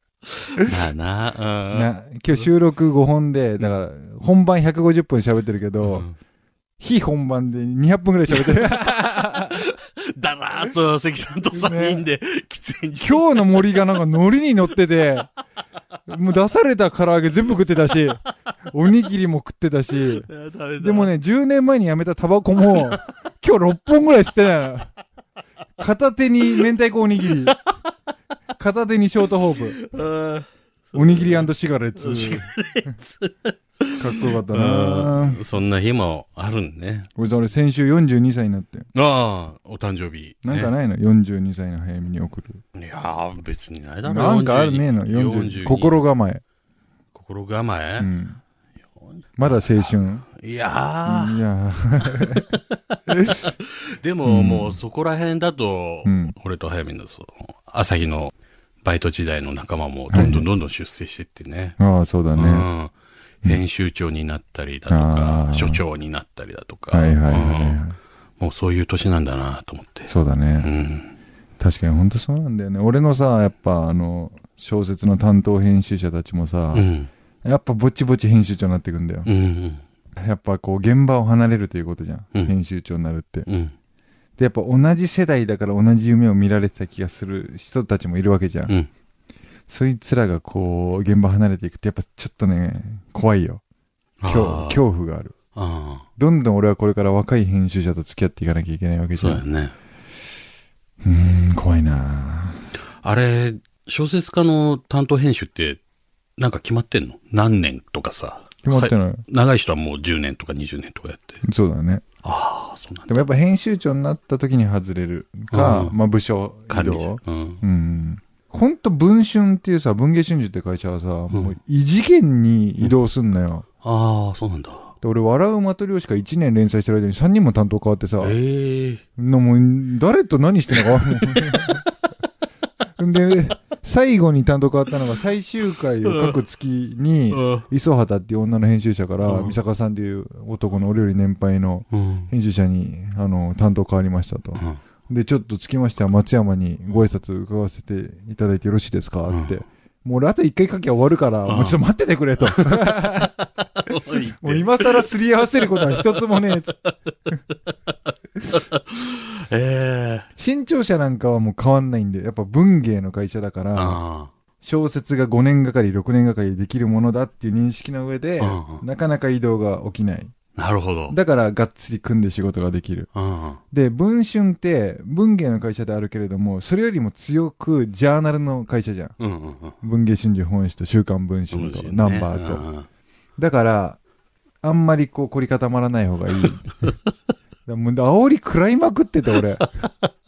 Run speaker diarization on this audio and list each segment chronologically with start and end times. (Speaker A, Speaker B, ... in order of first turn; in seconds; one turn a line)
Speaker A: 0.6-1.9
Speaker B: 1.7-6.1
Speaker A: 5.8-6.1
Speaker B: 6.8-9.6
Speaker A: 8.4-8.7
Speaker A: 9.3-13.7
Speaker B: 11.5-12.0
Speaker B: 13.0-15.3
Speaker B: 16.1-24.9
Speaker A: 20.3-21.1
Speaker A: 22.7-23.0
Speaker B: 25.8-27.6
Speaker B: 28.6-29.8
Speaker A: 29.8-37.1
Speaker B: 30.9-32.5
Speaker B: 34.0-35.4
Speaker B: 37.1-38.9
Speaker A: 38.9-40.7
Speaker B: 40.4-42.6
Speaker A: 42.7-46.0
Speaker B: 44.0-46.4
Speaker A: 47.1-48.1
Speaker B: 48.0-48.4
Speaker A: 49.0-51.4
Speaker B: 49.4-50.2
Speaker B: 51.0-52.5
Speaker A: 52.0-52.6
Speaker B: 53.1-53.5
Speaker A: 53.3-61.8
Speaker B: 54.2-54.8
Speaker B: 56.0-56.3
Speaker B: 60.1-60.5
Speaker B: 61.8-62.7
Speaker A: 62.3-67.8
Speaker B: 64.9-65.8
Speaker B: 66.9-68.0
Speaker A: 68.4-71.1
Speaker B: 70.1-70.7
Speaker B: 71.6-76.9
Speaker A: 76.7-77.1
Speaker B: 77.4-79.3
Speaker A: 79.2-79.8
Speaker B: 80.2-83.5
Speaker A: 83.5-83.7
Speaker B: 84.4-88.7
Speaker B: 89.7-93.6
Speaker A: 94.2-94.8
Speaker B: 94.3-95.3
Speaker A: 95.5-96.0
Speaker B: 96.2-99.4
Speaker A: 99.2-99.7
Speaker B: 101.0-102.6
Speaker A: 103.0-105.8
Speaker A: 106.4-111.4
Speaker B: 108.6-109.2
Speaker B: 111.4-112.0
Speaker A: 112.2-113.2
Speaker B: 113.1-123.7
Speaker A: 115.5-116.0
Speaker A: 116.7-117.6
Speaker A: 123.8-124.9
Speaker B: 125.0-128.4
Speaker A: 128.2-129.0
Speaker B: 129.2-131.8
Speaker A: 130.7-131.8
Speaker B: 133.0-153.3
Speaker A: 136.0-136.4
Speaker A: 137.3-137.7
Speaker A: 139.2-139.6
Speaker A: 141.9-142.3
Speaker A: 149.3-149.6
Speaker A: 151.4-151.8
Speaker A: 152.4-153.2
Speaker A: 153.8-156.9
Speaker B: 154.4-156.8
Speaker A: 158.5-160.3
Speaker B: 160.4-164.0
Speaker A: 163.7-164.3
Speaker B: 164.6-170.3
Speaker A: 168.4-168.8
Speaker A: 170.6-171.1
Speaker B: 171.1-173.1
Speaker A: 173.1-173.6
Speaker B: 173.7-179.2
Speaker A: 179.2-179.8
Speaker B: 179.8-182.6
Speaker A: 181.5-182.9
Speaker B: 183.4-184.0
Speaker B: 184.6-186.9
Speaker B: 187.7-189.7